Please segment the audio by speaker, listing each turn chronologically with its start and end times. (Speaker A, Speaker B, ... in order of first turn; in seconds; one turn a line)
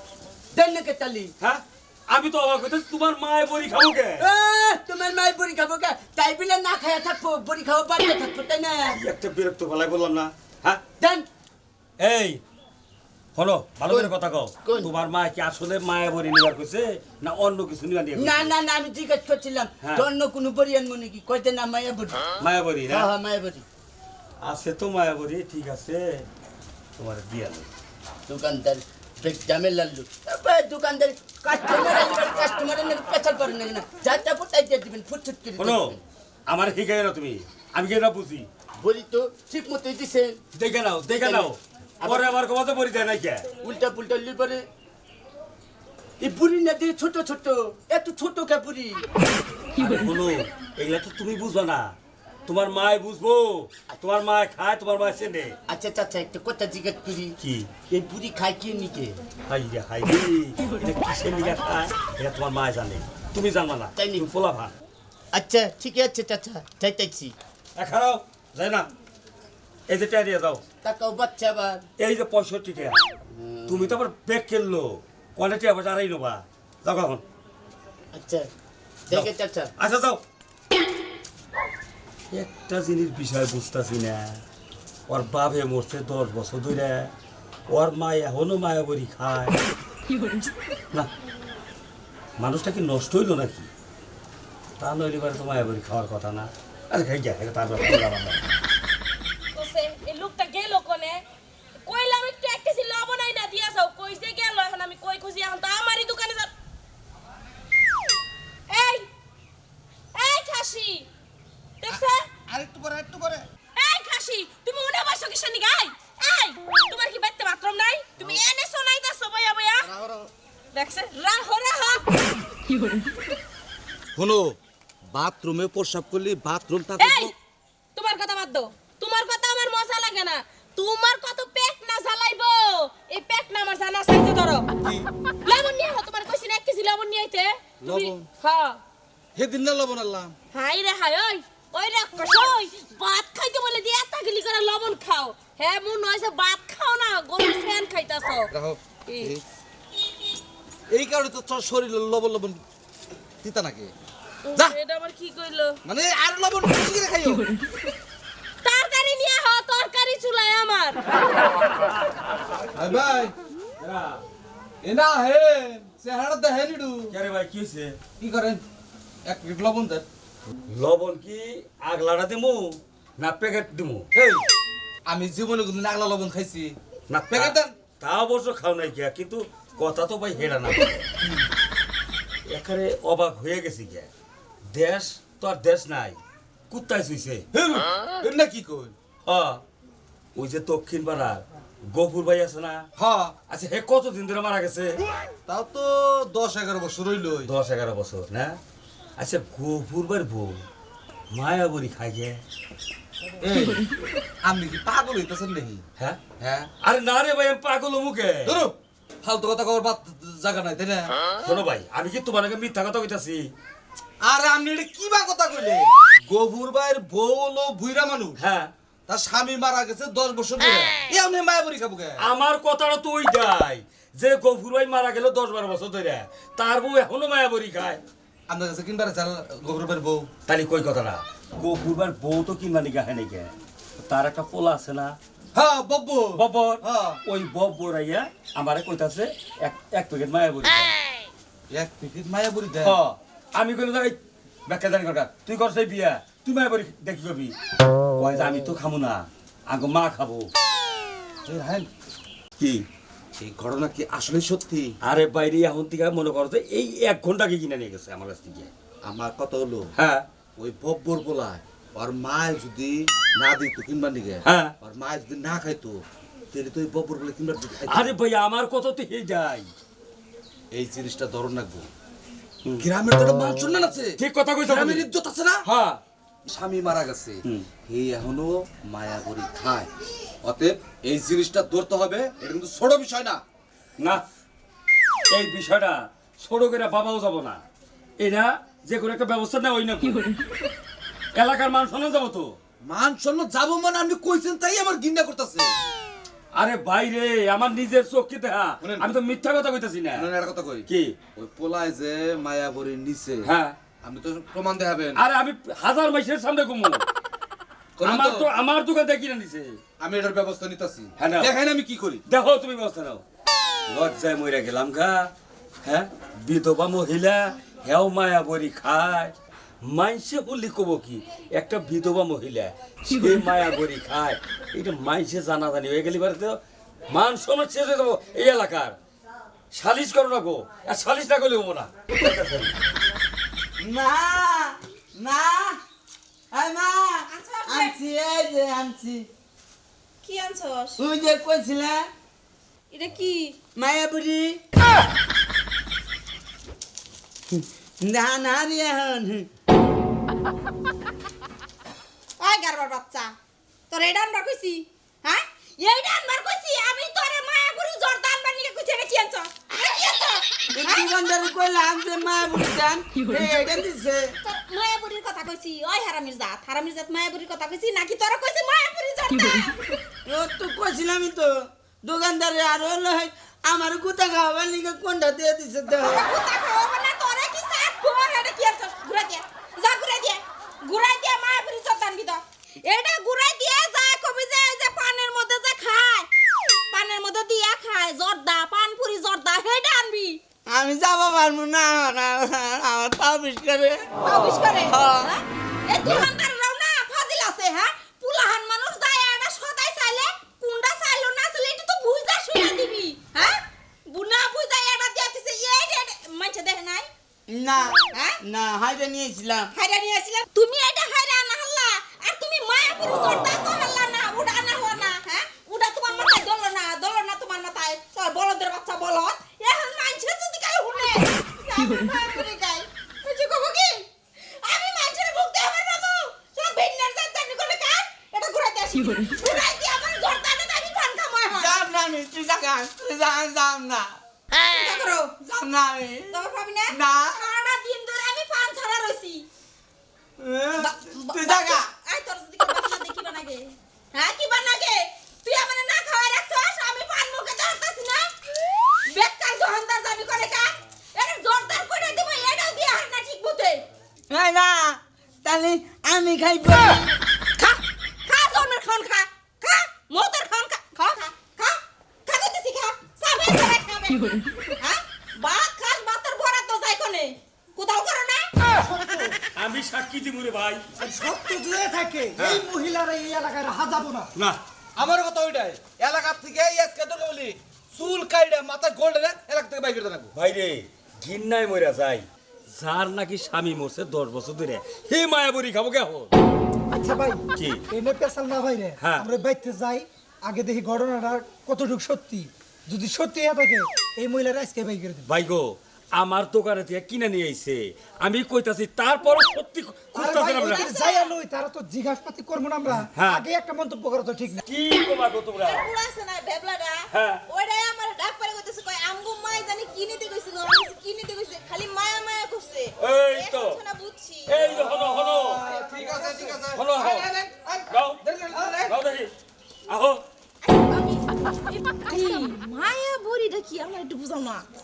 Speaker A: 0.5-1.3
Speaker B: 1.4-4.3
Speaker A: 4.2-8.9
Speaker B: 8.9-10.8
Speaker A: 11.0-11.2
Speaker B: 12.0-12.4
Speaker B: 13.3-18.6
Speaker A: 13.8-14.9
Speaker A: 18.1-22.3
Speaker B: 19.8-20.1
Speaker B: 22.4-23.1
Speaker A: 22.8-23.6
Speaker B: 24.4-26.2
Speaker B: 27.0-27.7
Speaker A: 28.3-36.0
Speaker B: 35.5-36.0
Speaker B: 36.5-38.5
Speaker A: 38.8-40.4
Speaker B: 40.5-43.5
Speaker A: 41.0-42.4
Speaker A: 43.5-44.6
Speaker A: 46.2-49.0
Speaker B: 49.8-51.9
Speaker B: 52.5-55.6
Speaker A: 55.7-59.2
Speaker B: 57.4-57.7
Speaker B: 59.5-64.7
Speaker A: 64.0-64.3
Speaker A: 65.3-67.3
Speaker B: 67.8-68.9
Speaker B: 69.9-70.6
Speaker A: 70.8-71.8
Speaker B: 72.0-73.0
Speaker A: 73.3-74.0
Speaker B: 73.7-77.2
Speaker A: 78.1-78.5
Speaker A: 79.1-79.7
Speaker B: 79.1-80.2
Speaker B: 82.3-84.4
Speaker B: 85.1-87.1
Speaker B: 87.7-89.5
Speaker B: 92.4-93.7
Speaker B: 94.8-98.4
Speaker C: 99.5-101.2
Speaker C: 101.8-106.5
Speaker C: 108.7-109.0
Speaker C: 110.2-110.7
Speaker D: 110.2-111.0
Speaker D: 111.9-112.2
Speaker E: 111.9-113.4
Speaker D: 113.8-119.9
Speaker E: 119.8-120.3
Speaker D: 120.7-122.0
Speaker E: 124.2-124.6
Speaker E: 125.1-127.3
Speaker C: 127.0-127.3
Speaker D: 128.0-128.7
Speaker C: 128.8-131.6
Speaker D: 131.2-132.4
Speaker C: 132.2-133.9
Speaker D: 133.1-134.6
Speaker D: 135.4-138.0
Speaker C: 136.9-138.8
Speaker E: 137.8-138.3
Speaker E: 139.3-140.3
Speaker C: 140.5-148.5
Speaker D: 141.8-144.2
Speaker E: 148.5-149.4
Speaker E: 150.9-152.6
Speaker E: 153.4-153.9
Speaker C: 154.5-155.7
Speaker E: 155.8-157.4
Speaker C: 158.6-161.0
Speaker E: 162.8-163.3
Speaker B: 163.8-164.2
Speaker E: 164.8-167.1
Speaker B: 167.1-167.9
Speaker E: 168.2-168.6
Speaker E: 169.2-170.0
Speaker B: 170.7-174.1
Speaker E: 174.1-174.4
Speaker E: 175.1-176.8
Speaker B: 177.1-181.1
Speaker E: 177.3-177.8
Speaker B: 182.5-184.1
Speaker B: 184.7-186.2
Speaker B: 186.7-187.4
Speaker E: 187.5-188.9
Speaker B: 189.2-189.6
Speaker B: 190.3-192.8
Speaker E: 193.0-193.3
Speaker B: 193.5-195.0
Speaker E: 195.5-197.5
Speaker B: 197.4-198.6
Speaker B: 199.2-200.6
Speaker B: 201.3-202.4
Speaker E: 203.4-203.8
Speaker E: 204.4-205.8
Speaker E: 206.4-206.7
Speaker B: 206.8-208.6
Speaker E: 208.4-211.1
Speaker B: 211.4-213.4
Speaker E: 214.2-218.4
Speaker B: 218.4-218.7
Speaker E: 219.1-222.2
Speaker B: 222.2-228.0
Speaker E: 228.5-230.3
Speaker B: 230.5-235.2
Speaker E: 235.5-237.2
Speaker B: 236.3-240.9
Speaker E: 241.7-243.0
Speaker B: 242.8-247.5
Speaker B: 248.2-250.5
Speaker E: 251.4-251.9
Speaker B: 252.6-252.8
Speaker E: 253.4-254.9
Speaker B: 255.0-258.7
Speaker E: 259.0-259.9
Speaker B: 259.9-260.2
Speaker E: 260.6-266.0
Speaker B: 264.4-264.7
Speaker E: 266.5-268.2
Speaker B: 267.9-269.7
Speaker E: 270.7-271.9
Speaker E: 272.8-275.6
Speaker B: 274.2-275.1
Speaker B: 275.6-276.0
Speaker E: 276.4-279.9
Speaker E: 280.4-283.4
Speaker B: 285.3-287.6
Speaker B: 288.2-290.2
Speaker B: 291.4-292.6
Speaker E: 292.9-295.7
Speaker B: 296.5-300.3
Speaker E: 298.8-299.1
Speaker E: 300.1-303.5
Speaker B: 303.4-303.8
Speaker E: 304.0-305.2
Speaker B: 305.1-307.0
Speaker E: 308.0-308.5
Speaker B: 308.0-309.8
Speaker E: 310.0-312.2
Speaker B: 311.2-311.5
Speaker B: 312.3-313.2
Speaker B: 313.9-315.2
Speaker B: 315.8-329.0
Speaker B: 329.7-332.7
Speaker A: 333.8-335.8
Speaker A: 336.5-339.3
Speaker D: 337.3-337.9
Speaker D: 340.2-341.0
Speaker A: 341.0-342.0
Speaker D: 342.9-343.6
Speaker A: 343.8-344.6
Speaker A: 347.5-349.5
Speaker D: 352.4-353.3
Speaker D: 353.9-361.3
Speaker A: 360.7-364.3
Speaker D: 364.4-369.8
Speaker A: 370.2-376.2
Speaker D: 376.0-386.3
Speaker D: 386.9-390.4
Speaker A: 390.7-395.4
Speaker D: 394.2-394.9
Speaker D: 395.9-407.1
Speaker A: 407.5-409.7
Speaker D: 408.1-408.4
Speaker D: 409.7-424.1
Speaker D: 424.6-431.8
Speaker A: 431.5-434.2
Speaker D: 434.7-435.4
Speaker A: 435.4-436.4
Speaker D: 436.3-439.4
Speaker A: 436.9-437.4
Speaker A: 440.4-441.8
Speaker D: 440.8-448.3
Speaker D: 449.0-453.8
Speaker A: 454.3-457.2
Speaker D: 457.6-468.5
Speaker F: 468.8-469.4
Speaker B: 469.6-470.8
Speaker F: 471.0-474.3
Speaker B: 472.4-472.6
Speaker E: 474.9-480.3
Speaker B: 480.3-486.3
Speaker F: 486.9-495.3
Speaker B: 487.6-487.8
Speaker B: 489.0-489.2
Speaker B: 495.3-500.9
Speaker F: 500.1-504.6
Speaker D: 500.6-501.3
Speaker B: 503.1-503.4
Speaker B: 504.6-505.9
Speaker D: 505.6-514.6
Speaker B: 507.1-507.4
Speaker B: 513.0-513.8
Speaker B: 514.5-515.6
Speaker E: 515.5-517.5
Speaker F: 515.5-516.6
Speaker B: 516.7-517.3
Speaker F: 517.5-517.8
Speaker B: 517.9-518.2
Speaker E: 518.2-519.0
Speaker F: 518.5-518.9
Speaker B: 518.9-519.3
Speaker B: 519.9-520.2
Speaker D: 520.6-524.6
Speaker C: 522.1-522.5